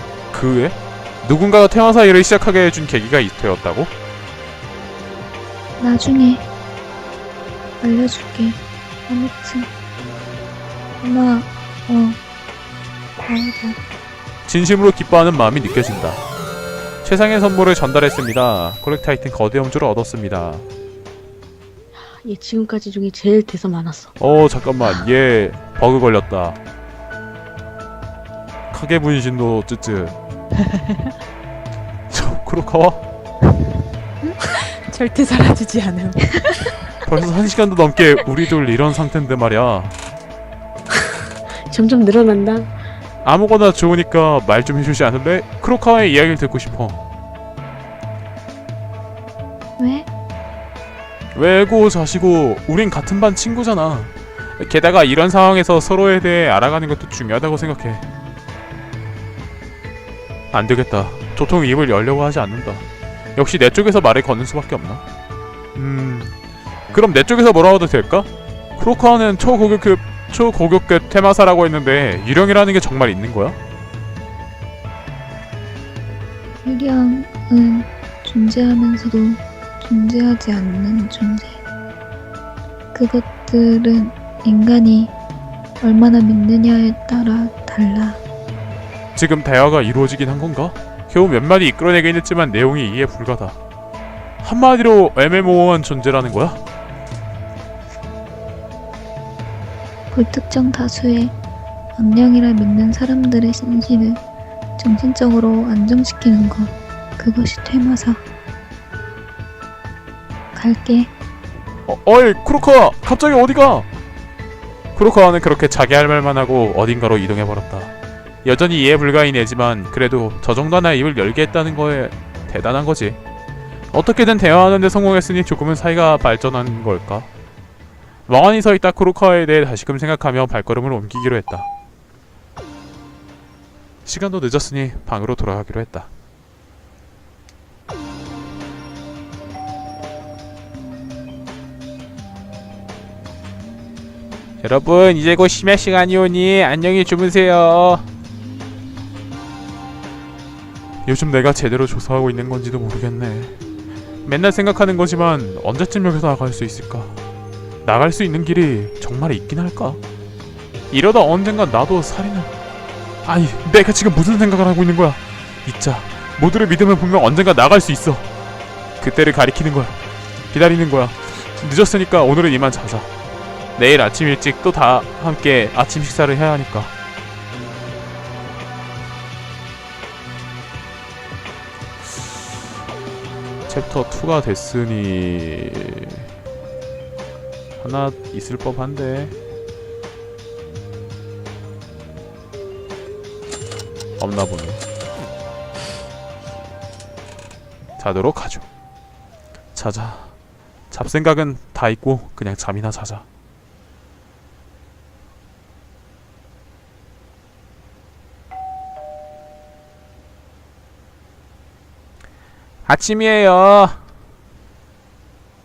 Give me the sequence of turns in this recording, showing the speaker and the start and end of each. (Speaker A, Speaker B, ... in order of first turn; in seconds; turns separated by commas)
Speaker A: 0.3-3.9, Speaker B: 5.8-6.5, Speaker B: 7.8-9.7, Speaker B: 11.0-12.2, Speaker B: 13.2-13.8, Speaker A: 14.5-16.2, Speaker A: 17.0-20.7, Speaker C: 22.2-24.1, Speaker A: 24.2-26.6, Speaker A: 28.7-30.2, Speaker A: 32.1-33.0, Speaker A: 37.1-40.0, Speaker C: 41.7-42.7, Speaker A: 43.2-47.0, Speaker B: 49.8-50.1, Speaker A: 51.4-58.0, Speaker A: 60.5-62.8, Speaker A: 63.4-65.0, Speaker A: 65.8-66.3, Speaker A: 66.9-73.6, Speaker B: 76.6-81.6, Speaker B: 82.9-85.1, Speaker B: 85.8-88.2, Speaker A: 89.2-93.6, Speaker A: 94.4-96.6, Speaker B: 100.1-101.3, Speaker B: 102.0-104.2, Speaker B: 104.8-108.2, Speaker B: 110.5-111.1, Speaker A: 111.9-113.9, Speaker A: 114.9-123.2, Speaker A: 123.9-127.3, Speaker A: 128.3-131.7, Speaker A: 134.1-136.1, Speaker A: 144.6-148.1, Speaker A: 151.1-153.5, Speaker A: 154.2-157.2, Speaker A: 157.8-160.0, Speaker A: 160.9-162.5, Speaker A: 163.2-168.2, Speaker A: 169.0-170.0, Speaker A: 170.5-173.1, Speaker A: 173.8-176.9, Speaker A: 183.7-186.2, Speaker A: 187.8-189.4, Speaker A: 194.2-194.8, Speaker A: 198.0-198.7, Speaker A: 199.8-200.3, Speaker A: 200.9-203.2, Speaker A: 212.9-214.0